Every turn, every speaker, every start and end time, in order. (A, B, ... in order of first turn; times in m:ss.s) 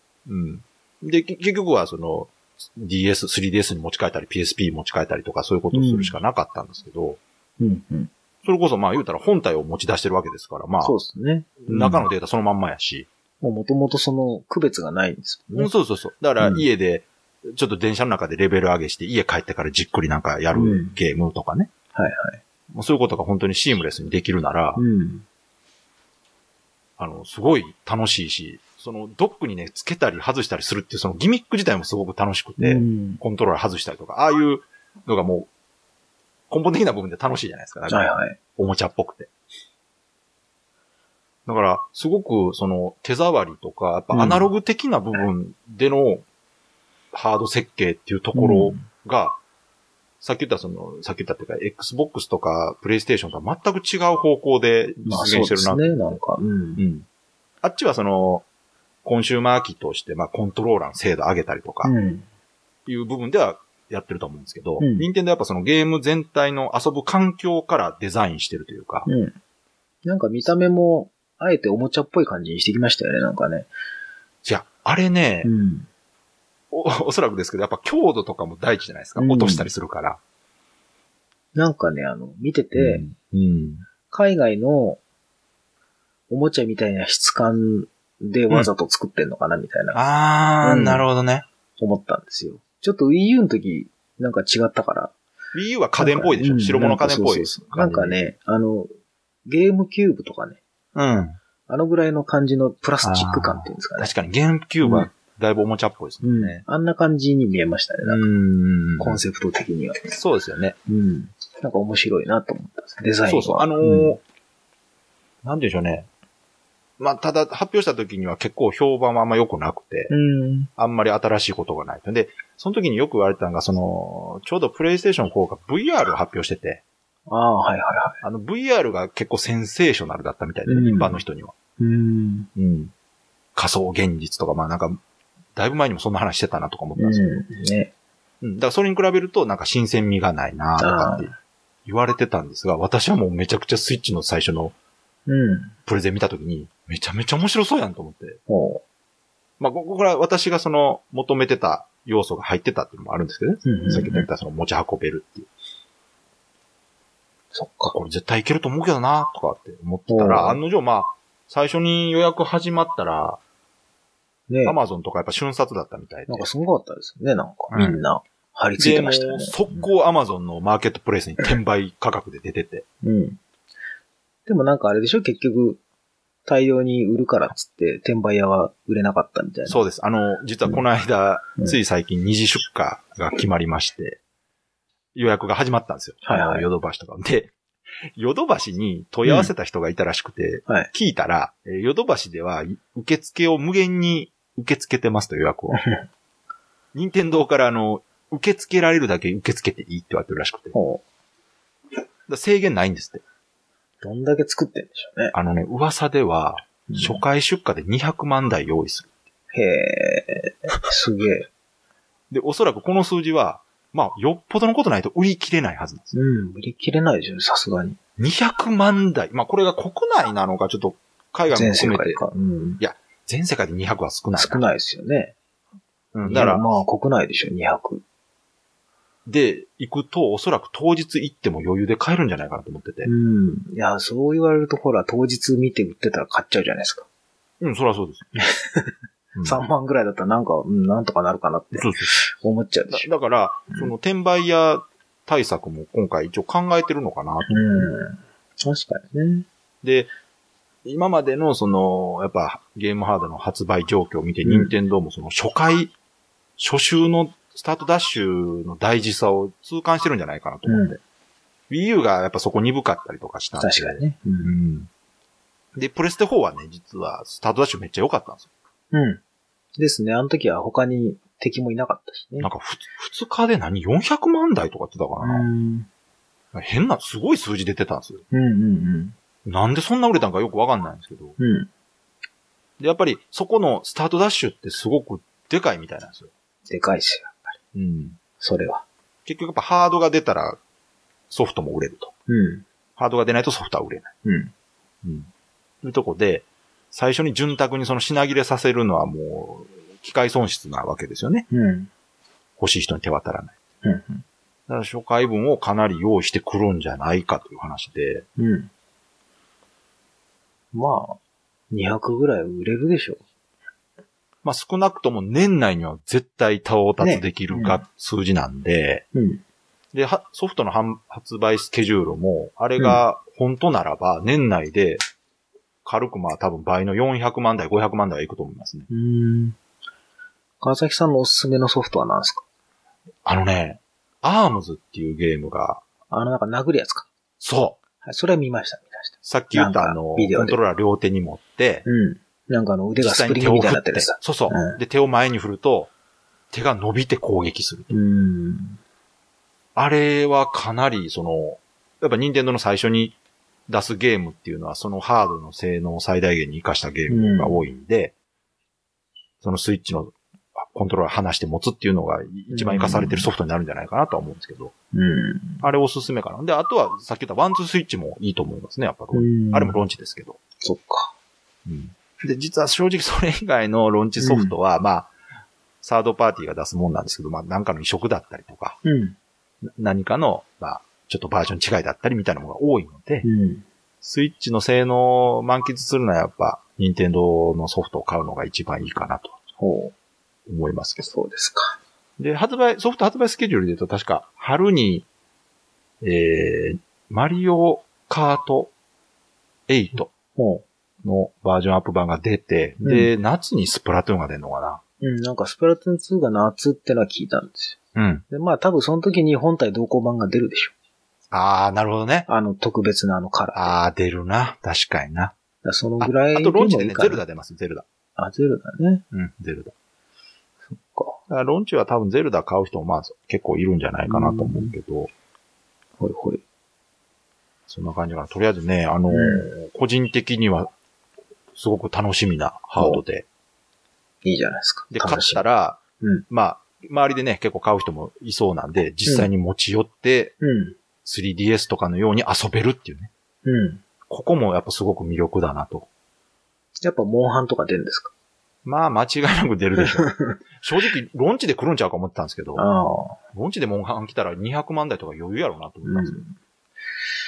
0:00.3-0:07.2 A
0:05.7-0:06.2 B
0:07.6-0:08.1 B
0:08.4-0:11.0 A
0:10.8-0:12.1 B
0:11.7-0:13.1 A
0:13.4-0:15.7 B
0:15.5-0:21.7 A
0:16.4-0:16.6 B
0:20.5-0:21.0 B
0:22.0-0:22.4 B
0:22.7-0:24.8 A
0:24.8-0:25.3 B
0:27.0-0:35.5 A
0:32.6-0:33.2 B
0:36.5-0:39.3 A
0:37.9-0:38.4 B
0:41.5-0:46.2 A
0:44.1-0:44.5 B
0:47.1-0:49.4 A
0:48.3-0:48.8 B
0:50.2-0:56.2 A
0:55.0-0:56.8 B
0:56.8-0:57.1 A
0:57.6-0:58.4 A
0:59.0-1:01.9 A
1:01.8-1:02.3 B
1:02.9-1:09.1 A
1:04.8-1:05.1 B
1:09.1-1:09.4 B
1:10.0-1:13.7 B
1:14.4-1:15.5 A
1:15.4-1:15.9 B
1:16.7-1:20.2 A
1:19.2-1:19.7 B
1:21.6-1:23.0 B
1:22.8-1:23.9 A
1:24.1-1:25.0 B
1:26.3-1:30.0 B
1:29.9-1:31.5 A
1:30.6-1:31.1 B
1:31.8-1:35.1 B
1:35.5-1:38.2 A
1:36.0-1:38.9 B
1:39.5-1:40.6 B
1:41.0-1:41.4 A
1:41.7-1:44.1 B
1:43.0-1:46.6 A
1:44.8-1:45.1 B
1:46.2-1:48.3 B
1:48.0-1:49.2 A
1:49.0-1:50.2 B
1:50.1-1:50.8 A
1:50.9-1:54.2 B
1:53.3-1:54.2 A
1:55.4-1:56.1 A
1:57.0-2:00.1 A
2:00.1-2:00.7 B
2:00.8-2:06.8 A
2:07.3-2:08.2 B
2:08.2-2:11.6 A
2:10.7-2:11.2 B
2:11.8-2:12.5 B
2:12.6-2:12.9 A
2:13.6-2:15.0 A
2:15.6-2:17.4 A
2:17.0-2:17.9 B
2:18.4-2:21.3 A
2:20.8-2:21.3 B
2:21.9-2:24.8 A
2:25.3-2:25.8 B
2:25.9-2:28.4 A
2:28.5-2:28.8 B
2:29.6-2:35.5 A
2:33.6-2:34.3 B
2:37.5-2:38.0 B
2:37.9-2:43.4 A
2:40.1-2:40.6 B
2:44.5-2:44.8 B
2:44.6-2:46.5 A
2:46.3-2:49.9 B
2:47.7-2:48.0 A
2:48.8-2:52.8 A
2:53.0-2:53.4 B
2:54.5-2:55.8 B
2:56.5-2:59.8 B
2:59.7-3:04.2 A
3:05.1-3:07.5 A
3:06.2-3:06.7 B
3:08.2-3:15.8 A
3:09.3-3:09.5 B
3:15.7-3:16.0 B
3:16.9-3:20.8 A
3:20.7-3:21.0 B
3:22.3-3:23.2 A
3:24.0-3:25.3 B
3:25.3-3:29.1 A
3:26.9-3:27.2 B
3:29.5-3:31.5 B
3:32.3-3:36.1 A
3:36.1-3:38.0 B
3:38.2-3:42.2 A
3:41.5-3:42.8 B
3:42.8-3:44.6 A
3:44.4-3:45.4 B
3:46.1-3:46.7 A
3:46.2-3:48.0 B
3:49.3-3:53.1 A
3:53.0-3:57.1 B
3:57.6-3:58.3 A
3:58.3-4:03.1 B
3:59.4-3:59.6 A
4:01.8-4:02.2 A
4:02.9-4:08.0 A
4:07.5-4:09.5 B
4:09.8-4:10.1 A
4:10.8-4:15.9 A
4:14.4-4:14.7 B
4:16.6-4:21.0 A
4:20.7-4:21.0 B
4:21.7-4:24.9 A
4:23.6-4:24.5 B
4:25.8-4:28.5 A
4:28.9-4:29.2 B
4:29.8-4:32.5 B
4:32.4-4:35.5 A
4:35.2-4:35.9 B
4:36.5-4:38.2 A
4:38.3-4:39.2 B
4:39.4-4:41.4 A
4:41.4-4:41.7 B
4:42.8-4:46.3 A
4:46.7-4:47.5 B
4:47.7-4:48.2 A
4:48.4-4:48.8 B
4:49.3-4:50.6 A
4:51.3-4:52.1 A
4:52.3-4:52.7 B
4:53.0-4:54.1 A
4:54.2-4:54.5 B
4:55.0-4:55.3 A
4:55.8-5:01.5 A
5:01.5-5:01.9 B
5:02.6-5:03.6 A
5:03.8-5:04.2 B
5:04.7-5:08.3 A
5:08.4-5:08.7 B
5:10.7-5:11.2 B
5:11.7-5:13.2 B
5:14.4-5:19.0 A
5:17.0-5:17.8 B
5:19.1-5:19.4 B
5:19.9-5:25.0 A
5:25.8-5:28.9 A
5:28.9-5:29.6 B
5:30.6-5:32.4 B
5:33.2-5:35.8 A
5:36.1-5:37.1 B
5:37.4-5:37.8 A
5:38.0-5:40.6 B
5:39.2-5:41.9 A
5:41.8-5:44.8 B
5:43.0-5:45.9 A
5:46.5-5:48.0 A
5:47.9-5:48.8 B
5:49.8-5:53.2 A
5:53.7-5:58.1 A
5:57.1-5:57.6 B
5:59.4-6:04.7 A
6:02.5-6:03.3 B
6:04.9-6:05.7 B
6:05.6-6:10.4 A
6:09.1-6:09.8 B
6:10.6-6:11.2 B
6:11.7-6:15.1 A
6:14.2-6:14.6 B
6:15.8-6:18.8 A
6:18.8-6:19.2 B
6:19.8-6:23.3 A
6:23.2-6:23.7 B
6:24.0-6:29.4 A
6:29.6-6:29.9 B
6:30.5-6:31.1 A
6:31.0-6:31.8 B
6:32.2-6:35.1 A
6:36.0-6:38.7 A
6:39.7-6:40.1 A
6:40.4-6:40.6 B
6:41.0-6:44.8 A
6:42.8-6:43.1 B
6:45.0-6:47.8 B
6:48.0-6:48.2 A
6:48.3-6:50.7 B
6:51.3-6:52.3 A
6:52.3-6:53.7 B
6:53.6-6:55.3 A
6:55.6-6:57.2 B
6:56.0-6:57.9 A
6:58.2-6:59.0 B
6:59.1-6:59.7 A
7:00.7-7:01.2 B
7:01.3-7:05.1 A
7:04.1-7:04.8 B
7:06.0-7:06.4 B
7:07.7-7:10.7 A
7:09.1-7:09.5 B
7:11.6-7:13.3 A
7:12.8-7:13.0 B
7:14.2-7:15.4 B
7:14.9-7:20.3 A
7:16.0-7:16.3 B
7:20.4-7:20.8 B
7:21.0-7:23.1 A
7:23.4-7:23.8 B
7:24.1-7:25.9 A
7:26.8-7:28.1 B
7:28.6-7:32.6 A
7:29.8-7:30.4 B
7:32.6-7:33.2 B
7:33.3-7:36.2 A
7:35.8-7:36.4 B